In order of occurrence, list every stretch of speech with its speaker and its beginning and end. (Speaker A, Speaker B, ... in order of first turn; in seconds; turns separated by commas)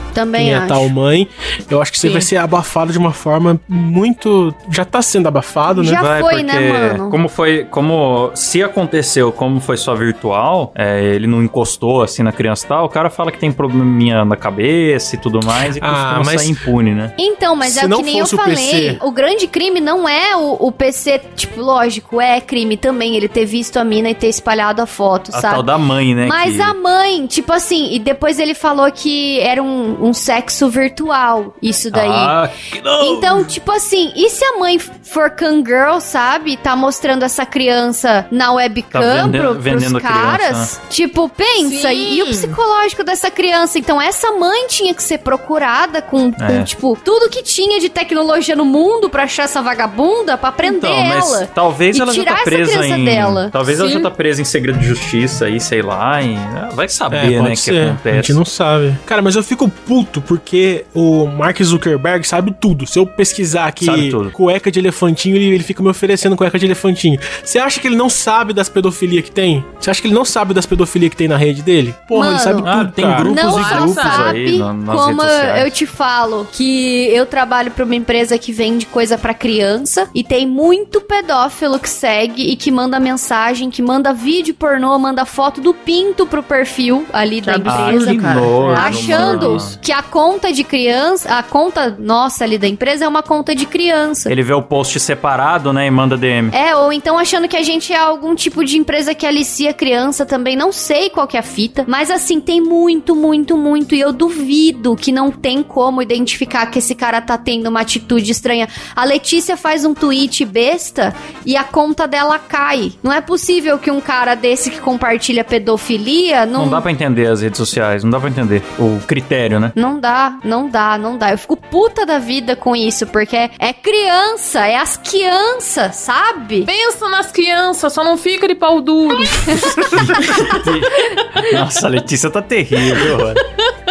Speaker A: 0.1-0.9, Speaker B: 0.4-6.0, Speaker C: 2.0-2.3, Speaker A: 5.7-7.2, Speaker D: 5.9-17.1, Speaker B: 15.7-16.5, Speaker A: 17.2-25.6, Speaker B: 17.6-19.0, Speaker D: 25.3-26.7, Speaker A: 26.2-32.4, Speaker D: 31.9-33.5, Speaker A: 33.0-54.1, Speaker D: 38.9-40.7, Speaker C: 41.6-42.6, Speaker D: 46.4-46.7, Speaker D: 50.6-58.4, Speaker B: 57.1-73.3, Speaker D: 63.8-64.3, Speaker A: 72.1-72.7, Speaker D: 72.6-75.7, Speaker A: 73.2-94.3, Speaker C: 73.4-74.4, Speaker C: 87.4-89.8, Speaker D: 87.6-89.8, Speaker D: 94.3-96.5, Speaker A: 96.5-116.8, Speaker D: 116.5-119.7, Speaker A: 119.8-126.7, Speaker C: 126.6-130.6, Speaker A: 129.2-129.7, Speaker D: 129.4-133.4